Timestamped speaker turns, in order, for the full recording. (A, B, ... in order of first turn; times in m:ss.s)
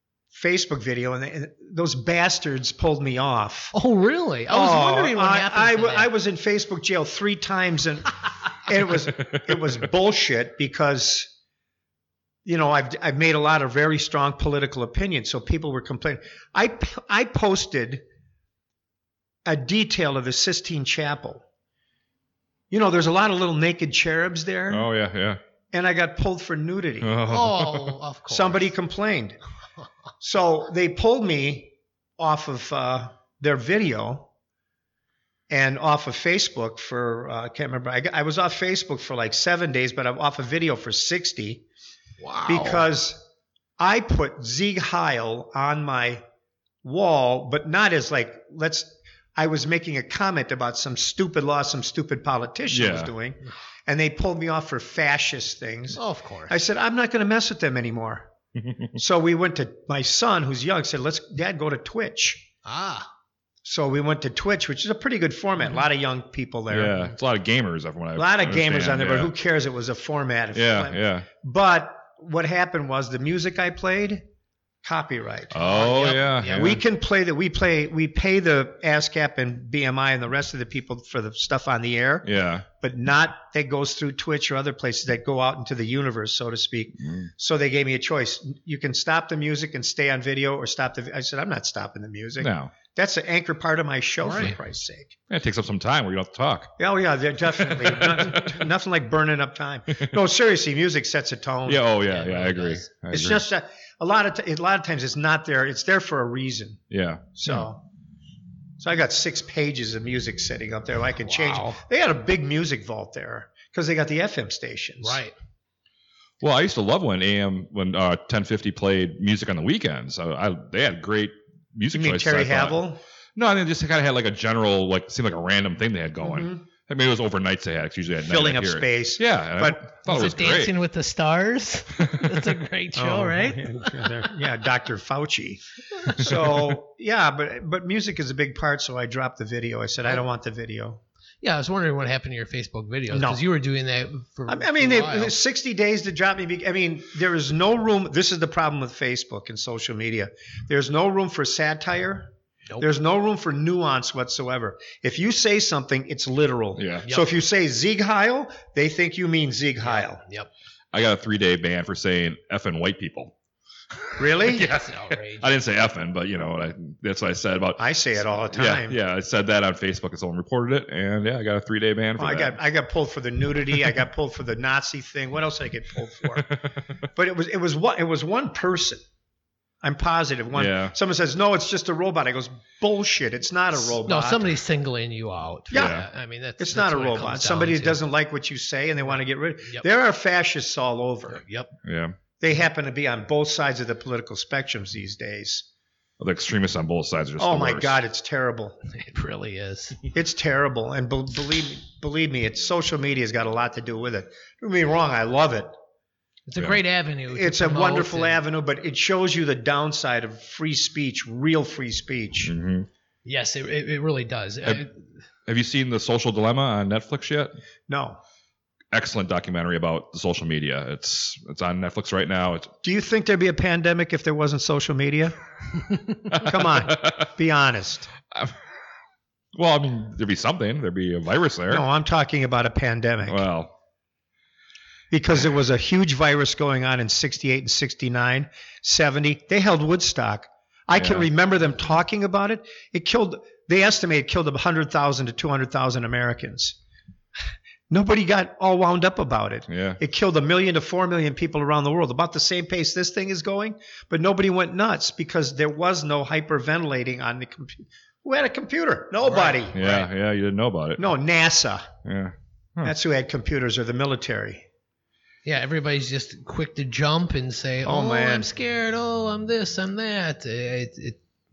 0:00.3-0:03.7 A
0:03.7-0:06.1 B
0:04.5-0:11.3 A
0:12.4-0:18.0 A
0:19.4-0:21.4 A
0:22.7-0:24.9 A
0:24.7-0:25.4 C
0:25.7-0:27.2 A
0:27.0-0:28.0 C
0:27.3-0:28.7 B
0:28.3-0:29.4 A
0:30.2-0:34.3 A
0:35.5-0:41.6 A
0:42.2-0:42.9 B
0:42.4-0:43.2 A
0:43.8-0:46.2 A
0:46.8-0:58.3 A
0:52.7-0:53.1 C
0:55.9-0:56.6 B
0:58.6-0:58.9 C
0:58.9-1:02.4 A
1:02.6-1:03.1 B
1:03.6-1:07.1 A
1:06.7-1:09.3 C
1:08.2-1:14.2 A
1:10.5-1:11.3 C
1:14.8-1:22.3 A
1:15.5-1:16.8 C
1:15.5-1:16.8 B
1:22.2-1:22.6 C
1:22.8-1:35.1 A
1:27.0-1:27.3 C
1:32.4-1:32.7 C
1:34.2-1:34.6 B
1:35.3-1:36.7 C
1:36.8-1:41.8 A
1:37.5-1:38.6 C
1:41.6-1:43.4 C
1:42.0-1:42.9 B
1:43.1-1:46.8 A
1:46.9-1:47.6 C
1:47.3-1:47.8 A
1:48.8-1:55.2 A
1:51.2-1:51.8 B
1:55.0-1:55.3 B
1:56.4-2:02.8 C
2:01.9-2:03.0 A
2:03.4-2:10.7 C
2:06.2-2:06.6 A
2:08.2-2:09.9 A
2:10.0-2:14.2 B
2:12.0-2:12.4 C
2:12.9-2:21.0 A
2:21.4-2:25.3 B
2:23.1-2:23.4 A
2:24.5-2:40.2 A
2:36.8-2:37.0 C
2:39.8-2:40.5 B
2:40.9-2:43.3 C
2:44.2-2:44.7 A
2:44.2-2:47.8 C
2:44.5-2:45.5 B
2:47.8-2:49.0 A
2:48.5-2:52.6 C
2:52.2-2:56.5 A
2:56.3-2:56.7 C
2:57.1-2:59.0 A
2:59.8-3:04.5 A
3:00.5-3:00.9 C
3:03.8-3:08.0 B
3:05.7-3:06.0 A
3:05.7-3:06.1 C
3:06.6-3:11.4 A
3:11.3-3:11.7 B
3:11.8-3:12.2 C
3:12.4-3:15.6 A
3:16.2-3:18.0 C
3:17.4-3:18.8 A
3:18.9-3:20.0 B
3:20.1-3:25.7 A
3:26.5-3:28.4 B
3:27.3-3:32.5 A
3:32.4-3:32.9 C
3:33.2-3:35.0 B
3:35.4-3:37.5 C
3:37.9-3:38.2 A
3:38.9-3:42.7 C
3:42.8-3:45.4 A
3:46.3-3:48.1 A
3:46.3-3:47.2 C
3:48.3-3:48.6 C
3:49.5-3:51.8 C
3:51.7-3:53.4 A
3:53.2-3:53.7 C
3:55.1-4:06.8 A
4:00.9-4:01.3 C
4:07.9-4:20.1 A
4:09.7-4:10.0 C
4:19.2-4:19.9 B
4:19.7-4:21.0 C
4:21.0-4:21.9 A
4:22.0-4:22.9 C
4:22.8-4:24.6 A
4:25.4-4:31.2 B
4:27.8-4:28.5 A